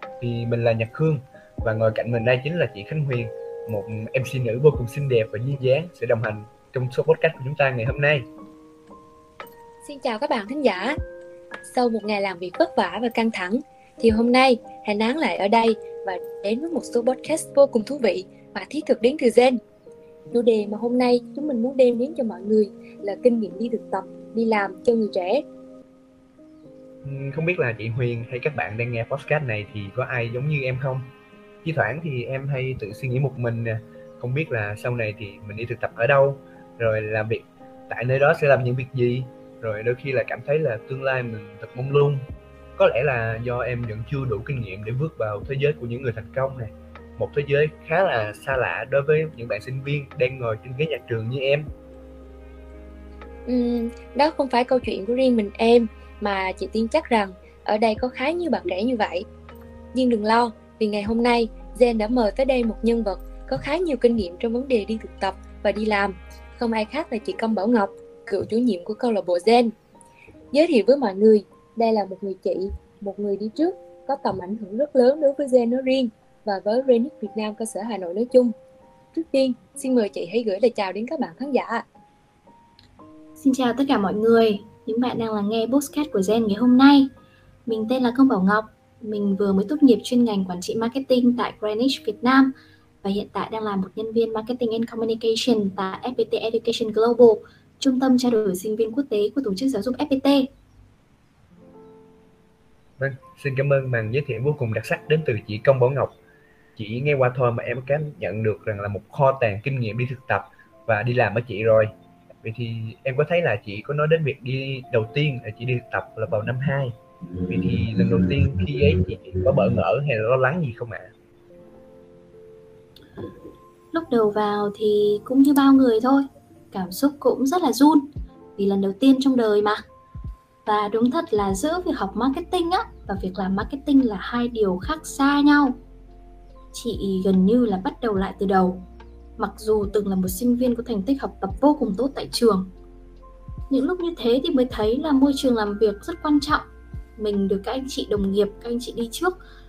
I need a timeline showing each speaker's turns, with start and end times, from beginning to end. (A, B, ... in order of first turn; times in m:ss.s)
0:00.2-0:08.3 A
0:09.8-0:10.9 B
0:11.6-0:19.6 B
0:20.3-0:25.4 B
0:27.0-0:31.1 A
0:31.6-0:42.2 A
0:42.8-0:51.7 A
0:53.5-0:59.2 B
0:59.9-1:09.7 B
1:10.5-1:18.5 B
1:19.1-1:21.8 B
1:23.4-1:27.1 C
1:27.6-1:32.5 C
1:33.0-1:40.5 C
1:43.0-1:46.1 A
1:46.8-1:51.9 A
1:52.4-1:56.9 A
1:57.5-2:01.1 A
2:03.9-2:09.8 C
2:10.6-2:15.8 C
2:16.7-2:18.8 C
2:19.4-2:22.7 C
2:23.7-2:26.6 C
2:27.2-2:29.4 C